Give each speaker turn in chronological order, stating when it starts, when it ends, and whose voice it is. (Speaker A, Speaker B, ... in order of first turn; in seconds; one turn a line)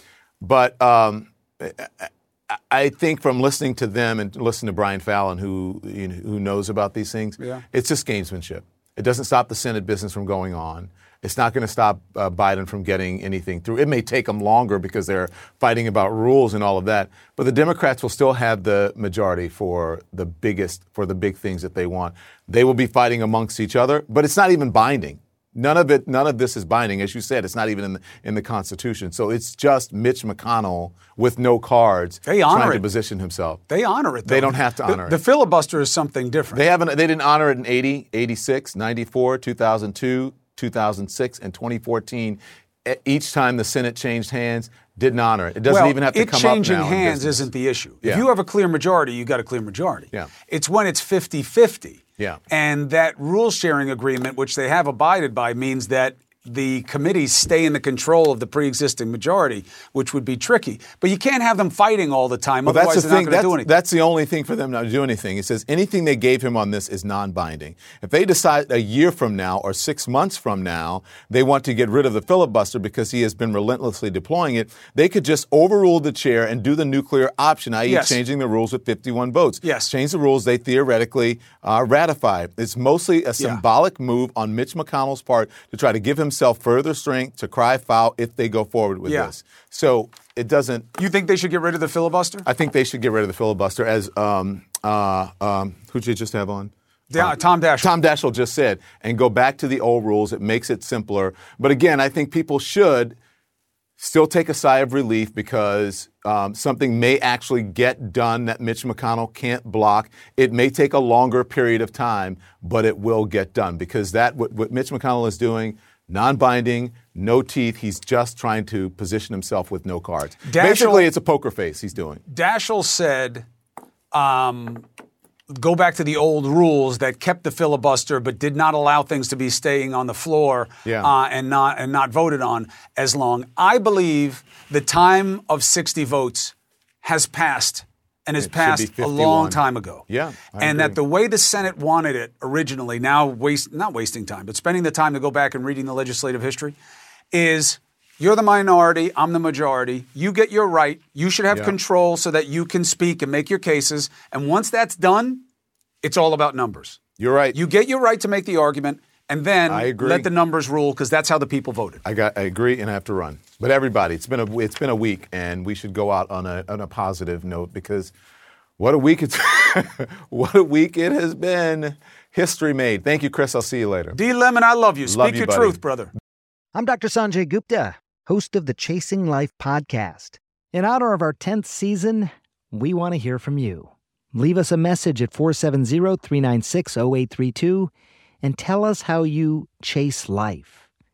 Speaker A: 0.4-33.6
Speaker B: 7.4-7.6
Speaker B: 32.2-32.8
Speaker B: 33.7-36.6
Speaker A: 34.2-35.2
Speaker A: 36.5-47.5
Speaker B: 45.7-63.7
Speaker A: 62.6-90.9
Speaker B: 77.8-78.2
Speaker B: 79.6-79.9
Speaker B: 89.0-89.3
Speaker B: 91.0-92.4
Speaker A: 92.4-103.2
Speaker B: 97.1-97.9
Speaker A: 104.0-122.2
Speaker B: 120.4-121.1
Speaker B: 122.3-123.5
Speaker B: 124.1-124.8
Speaker B: 125.5-140.1
Speaker A: 130.8-131.1
Speaker A: 138.4-141.0
Speaker B: 140.6-146.8
Speaker B: 147.3-155.4
Speaker B: 156.0-157.0
Speaker A: 157.2-157.6
Speaker B: 157.5-162.0
Speaker A: 159.7-160.3
Speaker A: 162.0-168.1
Speaker A: 168.8-174.2
Speaker B: 174.1-176.1
Speaker A: 175.1-175.8
Speaker C: 176.7-187.9
Speaker C: 188.4-190.8